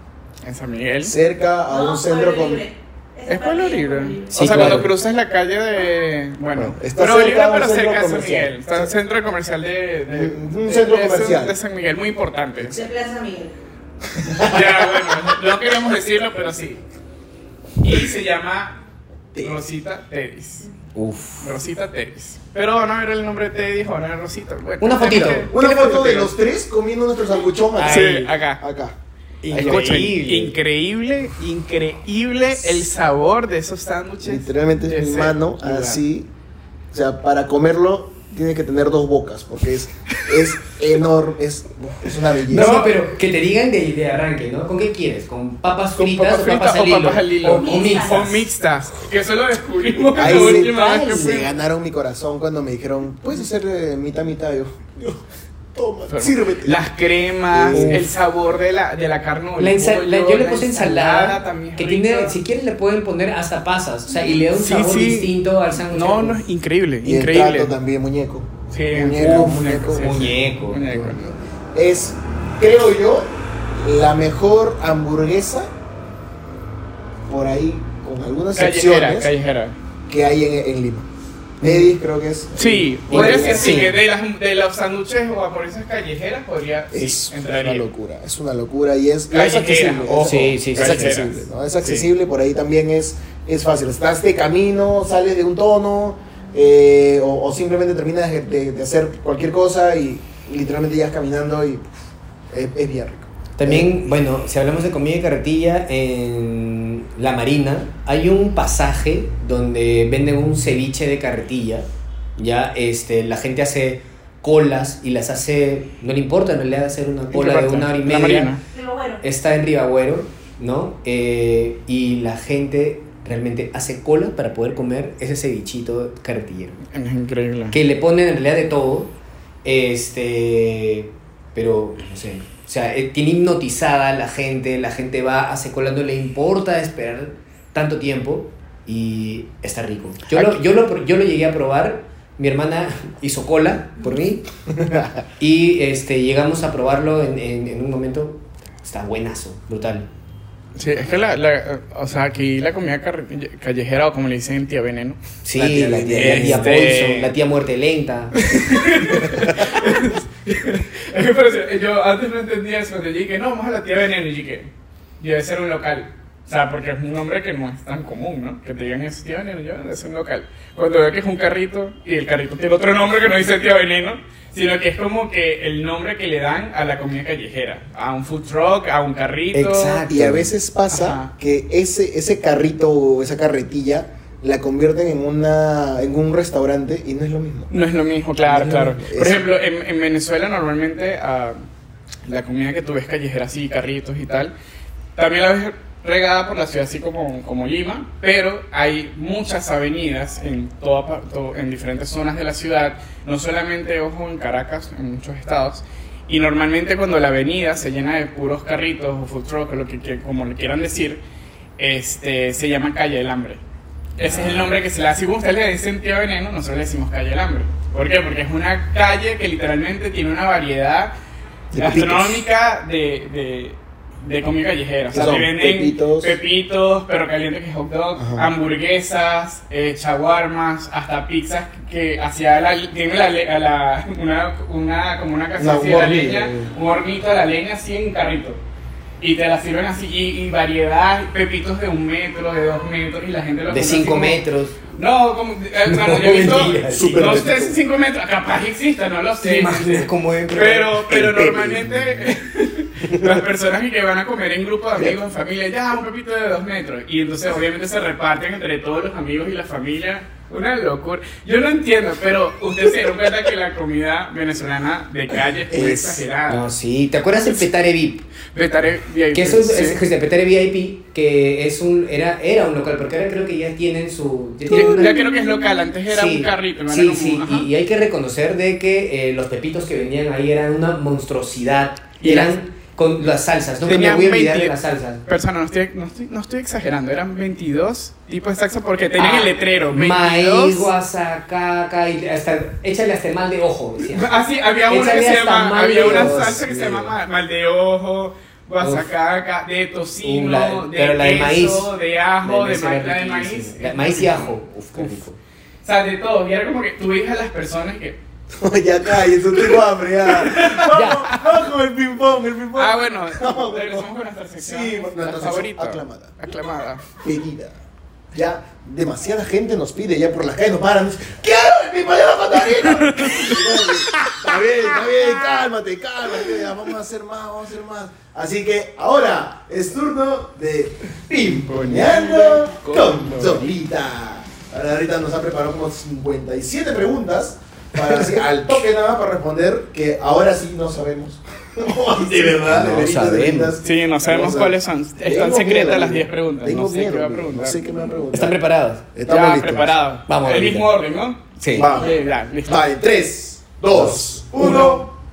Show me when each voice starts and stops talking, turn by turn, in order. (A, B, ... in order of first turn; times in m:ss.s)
0:00.4-0:01.1 A
0:01.0-0:02.6 B
0:01.7-0:04.9 C
0:03.2-0:12.8 A
0:04.3-0:04.9 D
0:06.5-0:08.9 B
0:10.1-0:11.5 B
0:12.7-0:13.6 C
0:14.1-0:15.4 B
0:14.4-0:16.8 A
0:17.8-0:18.8 A
0:19.3-0:19.6 B
0:19.4-0:20.7 A
0:20.9-0:21.5 D
0:21.4-0:26.2 A
0:24.8-0:26.3 D
0:25.5-0:29.0 B
0:27.8-0:28.3 D
0:27.8-0:28.6 A
0:29.4-0:30.6 D
0:29.5-0:30.1 B
0:29.6-0:36.0 A
0:34.2-0:36.3 B
0:36.9-0:42.8 B
0:42.5-0:43.0 A
0:42.5-0:48.4 D
0:46.0-0:51.5 A
0:47.5-0:48.3 C
0:50.2-0:55.2 B
0:50.2-0:50.6 D
0:55.7-0:56.9 B
0:56.1-1:02.4 A
0:57.5-0:58.1 B
0:57.7-0:58.1 D
0:59.6-1:06.4 D
1:04.1-1:07.7 A
1:07.0-1:10.3 B
1:08.7-1:11.2 A
1:09.9-1:11.0 D
1:10.8-1:15.7 B
1:17.3-1:19.3 B
1:18.5-1:19.8 A
1:20.1-1:21.1 B
1:21.6-1:23.9 B
1:22.6-1:27.8 A
1:23.1-1:24.0 D
1:26.9-1:41.8 B
1:29.3-1:32.1 A
1:30.2-1:31.4 D
1:42.5-1:43.9 B
1:43.6-1:58.6 D
1:57.3-1:58.6 A
1:58.7-1:59.2 C
1:59.2-2:06.8 D
2:06.9-2:07.8 A
2:07.7-2:24.5 D
2:24.8-2:25.1 B
2:25.4-2:30.1 D
2:30.8-2:35.2 A
2:35.4-2:39.4 D
2:35.5-2:36.8 B
2:36.2-2:37.3 A
2:38.4-3:00.0 A
2:59.5-3:00.5 D
3:00.1-3:07.7 B
3:00.9-3:01.3 A
3:07.7-3:11.6 A
3:08.4-3:09.5 B
3:12.2-3:14.5 A
3:15.2-3:31.2 A
3:31.8-3:33.6 A
3:34.2-3:41.1 A
3:34.2-3:34.7 B
3:41.7-3:42.4 B
3:41.7-3:58.6 A
3:45.1-3:46.4 B
3:48.2-3:48.5 B
3:55.6-3:56.7 B
3:59.2-4:04.4 A
4:03.7-4:04.8 D
4:04.9-4:26.7 A
4:05.8-4:07.4 D
4:06.9-4:07.8 B
4:09.4-4:11.8 D
4:11.4-4:12.1 B
4:25.7-4:26.2 B
4:26.5-4:28.3 D
4:28.5-4:30.0 A
4:29.3-4:35.2 D
4:34.7-4:37.7 A
4:34.7-4:35.9 C
4:36.0-4:45.2 D
4:42.2-4:42.6 A
4:43.8-4:44.7 A
4:45.2-4:50.9 A
4:49.2-4:54.3 D
4:54.1-5:05.1 A
4:54.9-4:57.2 D
4:58.8-4:59.1 D
5:00.2-5:01.9 D
5:02.4-5:05.4 D
5:05.8-5:08.2 A
5:08.5-5:16.3 B
5:10.3-5:11.4 A
5:10.8-5:11.4 D
5:12.8-5:17.0 A
5:17.2-5:17.8 B
5:18.3-5:48.6 B
5:23.0-5:24.4 A
5:25.0-5:25.4 A
5:31.7-5:33.7 A
5:42.6-5:43.8 D
5:43.8-5:47.8 A
5:48.3-5:49.0 D
5:49.1-5:49.9 B
5:49.2-5:52.8 A
5:50.3-5:50.9 D
5:51.6-5:51.9 D
5:51.7-5:52.1 B
5:51.9-5:52.3 C
5:52.6-5:55.1 B
5:53.9-5:54.5 D
5:54.6-5:55.0 A